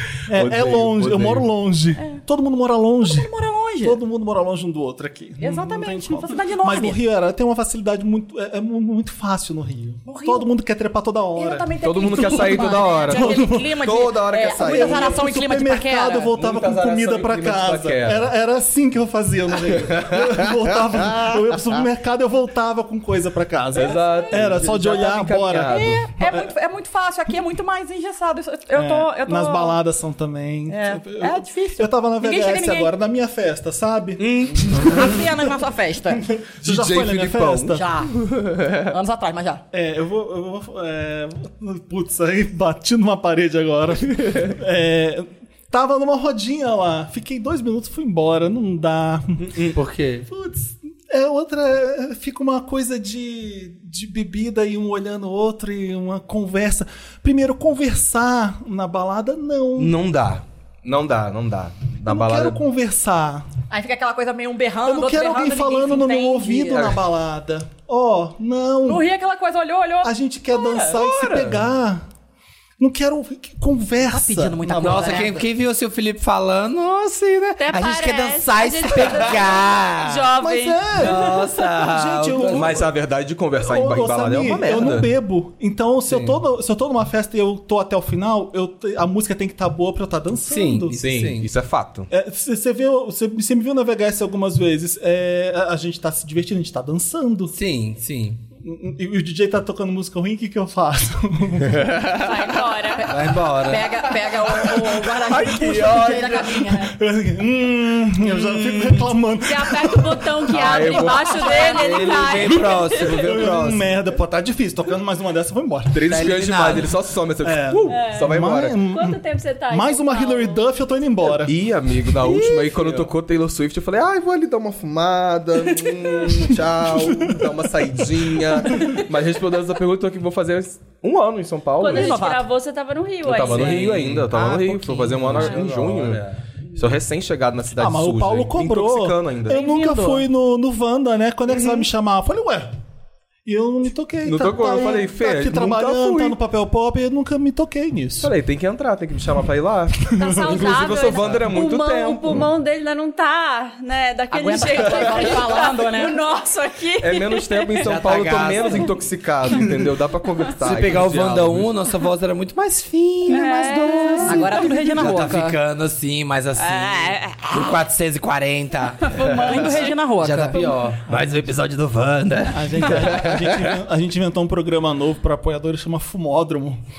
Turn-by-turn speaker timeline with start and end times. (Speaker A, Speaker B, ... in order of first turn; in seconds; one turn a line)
Speaker A: 0.2-13.9
Speaker B: 0.3-1.5
Speaker C: 3.0-4.0
Speaker C: 5.4-7.0
Speaker C: 10.0-10.5
Speaker C: 11.3-16.3
Speaker B: 11.8-15.2
Speaker A: 14.4-26.5
Speaker B: 16.4-18.3
Speaker B: 19.6-21.3
Speaker B: 23.7-26.0
Speaker C: 25.5-29.8
Speaker A: 28.7-35.5
Speaker C: 30.7-32.9
Speaker B: 34.2-35.2
Speaker C: 34.8-36.2
Speaker A: 36.1-37.8
Speaker B: 36.6-38.9
Speaker C: 37.7-38.1
Speaker C: 38.9-39.6
Speaker A: 39.7-49.5
Speaker B: 44.2-44.5
Speaker B: 49.4-49.8
Speaker D: 49.7-50.3
Speaker A: 50.3-59.9
Speaker B: 59.8-62.6
Speaker A: 62.0-63.5
Speaker C: 63.7-66.8
Speaker A: 64.8-69.0
Speaker B: 66.7-67.0
Speaker C: 68.8-70.9
Speaker A: 70.0-72.0
Speaker B: 70.9-71.6
Speaker A: 72.8-75.2
Speaker C: 74.0-75.5
Speaker D: 74.7-80.3
Speaker E: 77.6-81.3
Speaker A: 80.4-82.9
Speaker D: 80.9-82.8
Speaker B: 82.4-85.1
Speaker A: 83.5-91.0
Speaker D: 90.4-91.5
Speaker B: 91.0-92.1
Speaker A: 92.1-97.5
Speaker D: 97.5-98.4
Speaker A: 98.6-102.3
Speaker B: 101.7-102.4
Speaker E: 102.1-103.2
Speaker C: 103.0-106.9
Speaker D: 103.1-104.0
Speaker A: 104.6-111.8
Speaker B: 105.3-106.7
Speaker B: 108.2-109.1
Speaker E: 109.4-113.4
Speaker B: 110.5-112.2
Speaker D: 111.6-114.0
Speaker A: 113.1-116.2
Speaker B: 115.9-118.8
Speaker D: 116.0-116.9
Speaker A: 117.4-119.2
Speaker E: 117.9-118.3
Speaker E: 118.9-120.7
Speaker A: 119.7-121.5
Speaker B: 121.3-132.2
Speaker D: 122.2-123.1
Speaker A: 126.8-129.0
Speaker E: 131.8-134.0
Speaker C: 131.8-132.4
Speaker B: 133.2-139.6
Speaker D: 133.4-136.4
Speaker E: 135.3-135.7
Speaker A: 137.8-142.7
Speaker C: 139.5-140.3
Speaker A: 143.4-148.3
Speaker B: 144.2-146.3
Speaker B: 148.2-152.5
Speaker A: 150.1-150.8
Speaker E: 150.1-158.9
Speaker C: 154.3-156.2
Speaker B: 154.7-155.3
Speaker B: 157.0-161.7
Speaker D: 157.8-158.9
Speaker D: 160.6-173.2
Speaker E: 163.2-164.8
Speaker C: 164.2-165.6
Speaker E: 166.6-167.8
Speaker C: 169.0-170.6
Speaker A: 171.1-171.3
Speaker A: 172.5-176.8